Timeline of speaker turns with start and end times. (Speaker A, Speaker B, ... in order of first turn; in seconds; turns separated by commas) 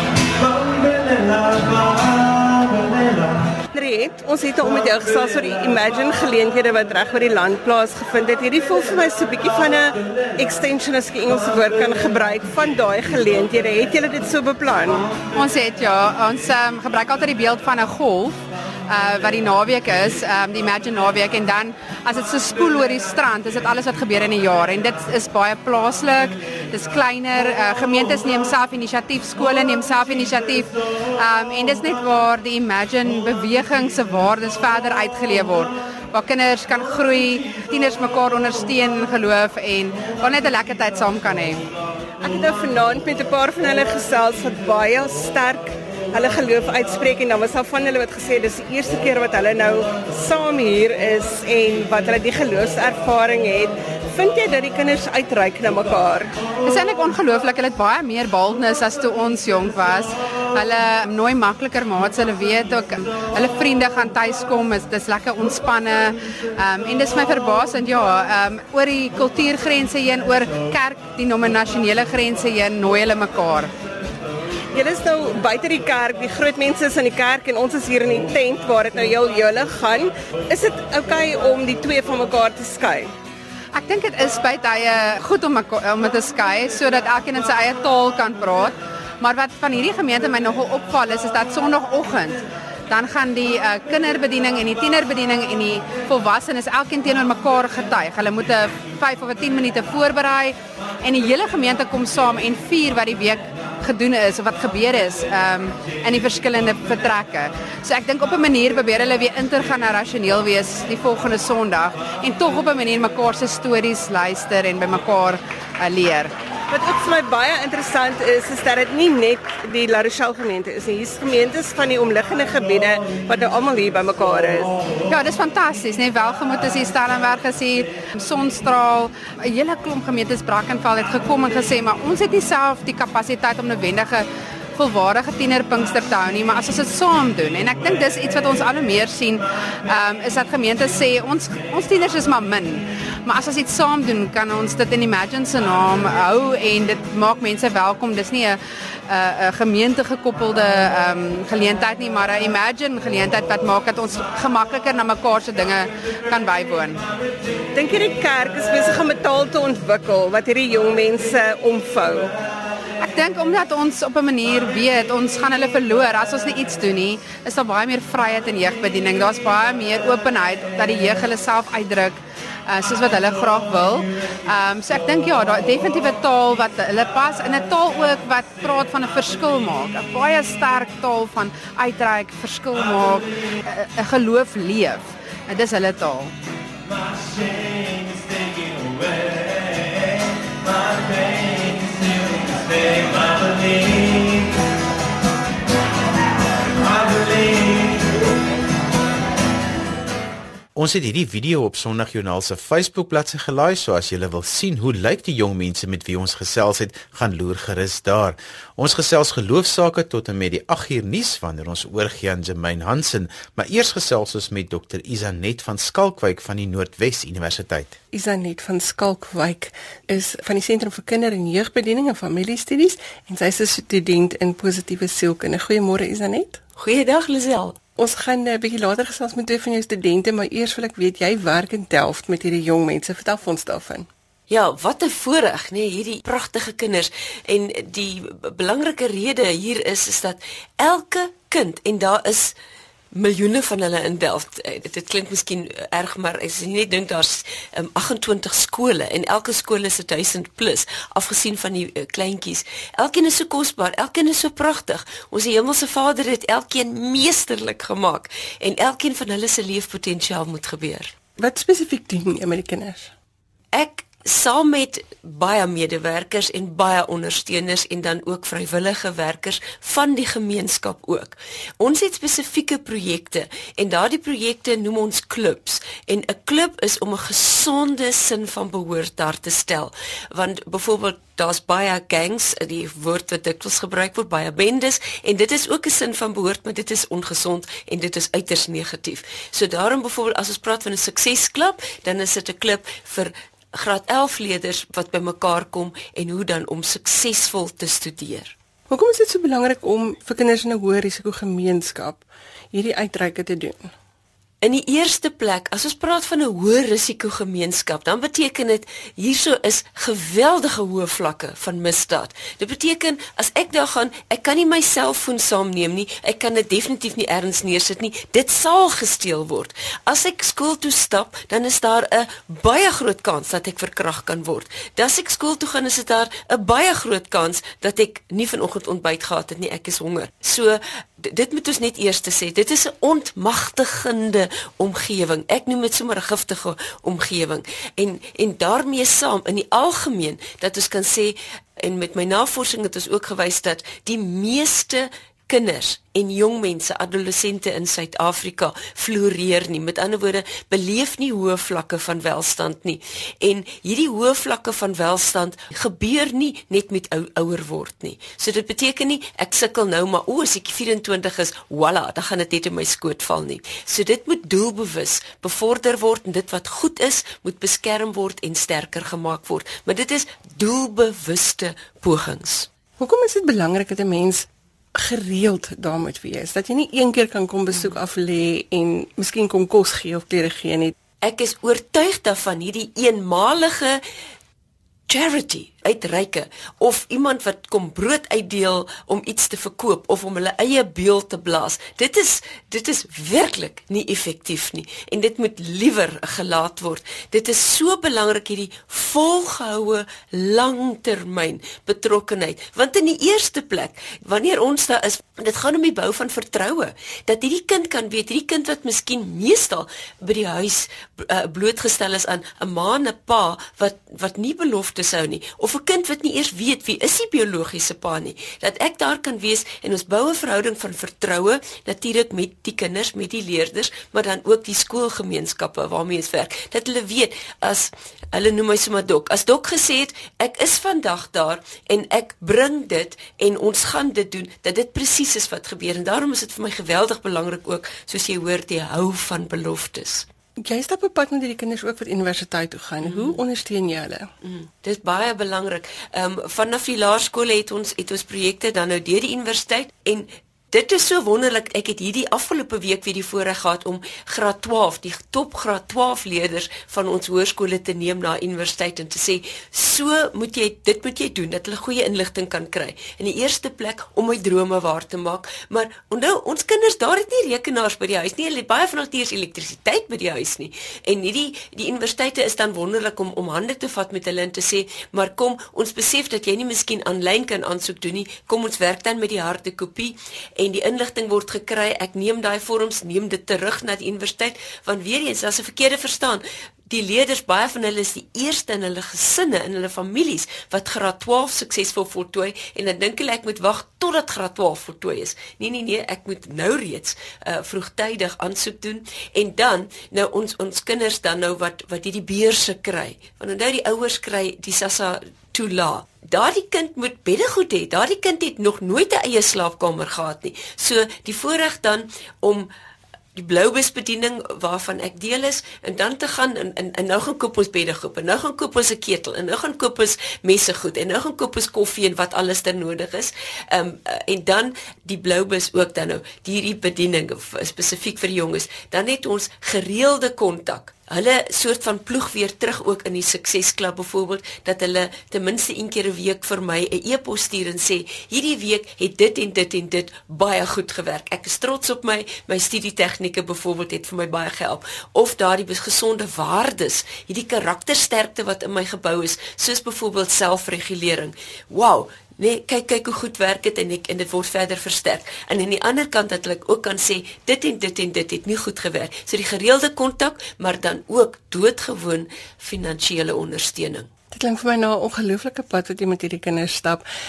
Speaker A: 3.7-15.1, Speaker B: 15.3-41.6, Speaker A: 42.2-56.4, Speaker B: 56.6-73.7, Speaker A: 74.7-83.1, Speaker B: 83.8-116.3, Speaker A: 116.7-124.8, Speaker B: 125.1-157.0, Speaker A: 157.7-162.3, Speaker B: 163.0-186.3, Speaker C: 200.8-218.0, Speaker D: 218.1-226.6, Speaker E: 226.8-227.8, Speaker D: 228.0-234.1, Speaker E: 234.5-242.5, Speaker E: 243.1-261.1, Speaker D: 261.4-263.1, Speaker E: 263.7-298.6, Speaker D: 298.9-303.9, Speaker E: 304.6-372.7, Speaker D: 373.0-380.9, Speaker E: 381.2-384.0, Speaker E: 385.1-440.3, Speaker D: 440.6-444.3, Speaker E: 443.0-443.4, Speaker E: 444.4-512.7, Speaker E: 513.4-564.1, Speaker D: 564.3-567.0